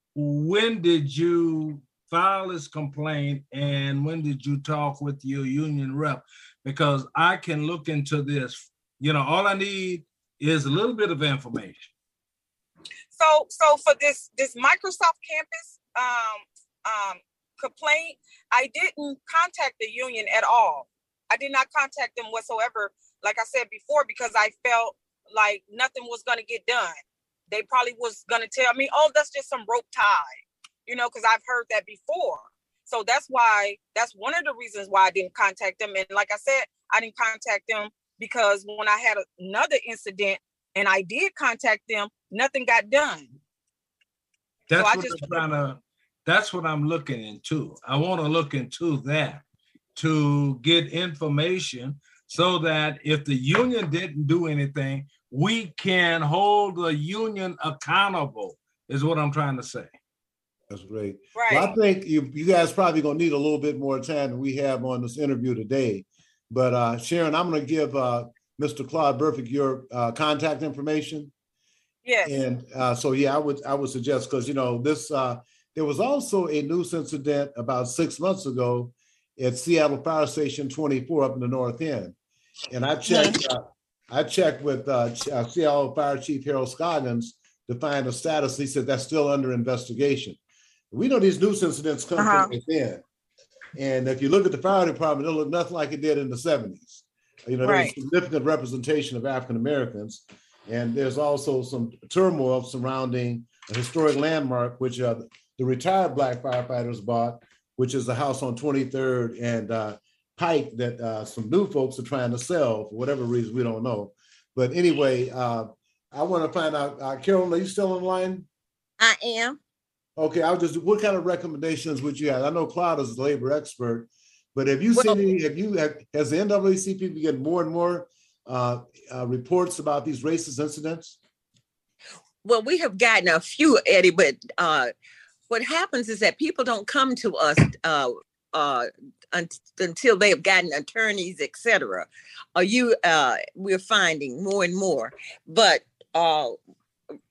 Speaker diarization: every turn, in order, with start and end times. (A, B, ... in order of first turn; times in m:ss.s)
0:00.2-0:11.9 A
0:13.2-0:27.0 B
0:27.5-0:30.4 B
0:30.9-0:43.4 B
0:44.7-0:49.4 A
0:44.8-0:45.4 B
0:50.0-0:59.9 A
1:00.7-1:11.3 C
1:01.4-1:01.7 B
1:12.0-1:12.3 B
1:12.2-1:22.2 C
1:22.7-1:30.4 C
1:23.1-1:23.4 B
1:30.9-1:33.0 C
1:32.2-1:32.5 B
1:33.8-1:58.5 C
1:37.6-1:37.9 B
1:59.0-1:59.6 D
2:00.2-2:11.2 C
2:05.0-2:05.2 D
2:12.4-2:14.9 D
2:15.5-2:26.6 D